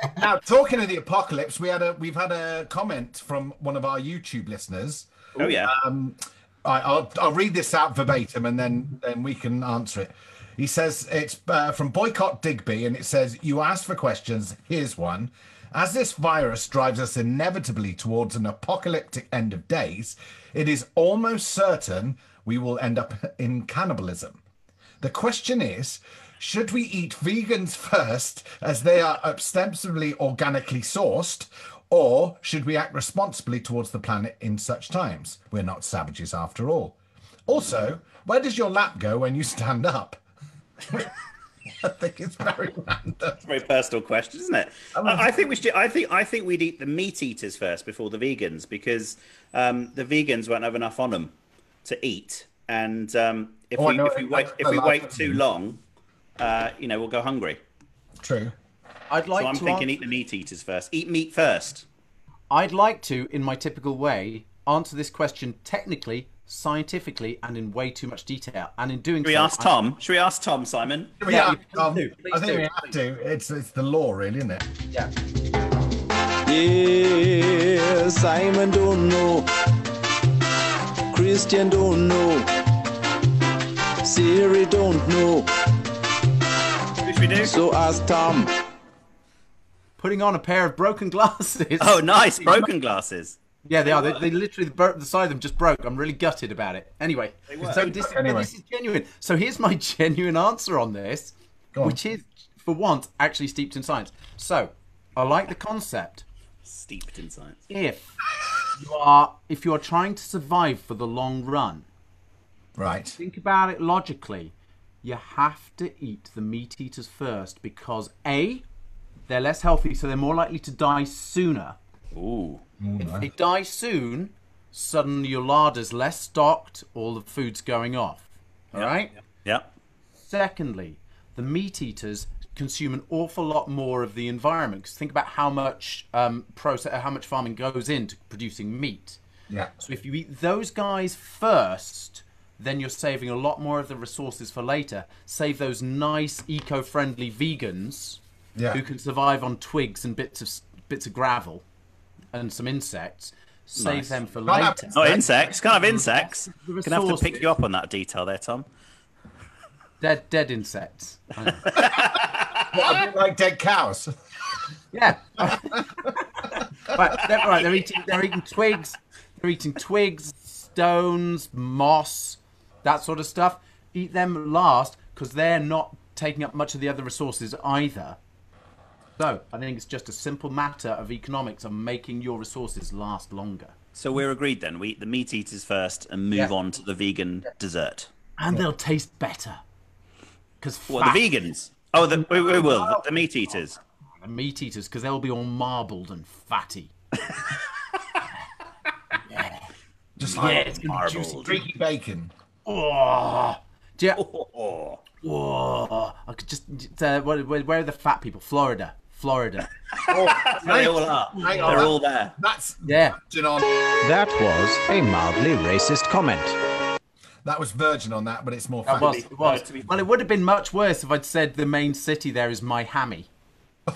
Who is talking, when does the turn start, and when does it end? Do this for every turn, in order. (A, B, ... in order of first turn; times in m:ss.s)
0:00.2-0:24.4 A
0:05.4-0:05.7 B
0:25.0-0:40.2 A
0:40.9-0:41.1 A
0:41.8-0:43.4 A
0:43.4-0:51.3 B
0:45.0-0:45.3 A
0:51.8-0:55.8 B
0:53.8-0:55.4 A
0:56.4-0:57.6 B
0:58.2-0:58.6 A
0:59.1-0:59.9 C
0:59.4-1:01.8 B
1:02.5-1:09.7 C
1:09.2-1:11.2 B
1:11.2-1:14.7 A
1:11.3-1:13.0 C
1:16.5-1:19.5 D
1:21.1-1:22.5 D
1:24.0-1:25.5 D
1:27.0-1:27.5 B
1:27.4-1:28.5 D
1:30.0-1:32.7 C
1:31.8-1:34.3 B
1:33.7-1:46.2 C
1:37.5-1:37.9 B
1:37.7-1:38.5 A
1:46.6-1:47.6 B
1:47.7-1:48.2 C
1:48.8-1:51.9 C
1:52.8-1:53.2 A
1:53.2-1:58.6 C
1:59.3-2:01.8 C
2:02.2-2:02.6 B
2:02.8-2:03.3 A
2:03.0-2:09.1 C
2:10.2-2:19.2 C
2:19.8-2:28.2 C
2:28.7-2:31.6 C
2:32.3-2:35.1 C
2:33.8-2:34.2 B
2:34.5-2:35.4 A
2:34.9-2:38.7 B
2:35.9-2:37.5 C
2:40.0-2:41.9 C
2:41.7-2:42.9 B
2:42.7-2:44.1 A
2:44.9-2:58.2 C
2:45.4-2:46.1 A
2:59.2-3:03.8 C
3:04.0-3:08.1 B
3:08.4-3:09.6 C
3:10.6-3:11.2 C
3:10.9-3:13.8 B
3:12.3-3:13.1 C
3:14.2-3:16.9 C
3:19.2-3:19.7 C
3:20.2-3:20.7 A
3:20.2-3:21.6 B
3:20.3-3:21.5 C
3:21.4-3:22.3 A
3:22.7-3:24.2 C
3:24.2-3:25.0 B
3:25.2-3:29.7 C
3:29.9-3:32.4 B
3:30.1-3:33.9 A
3:31.3-3:31.9 C
3:32.8-3:33.2 C
3:34.0-3:36.6 C
3:37.4-3:39.2 A
3:38.9-3:43.3 C
3:39.0-3:39.9 B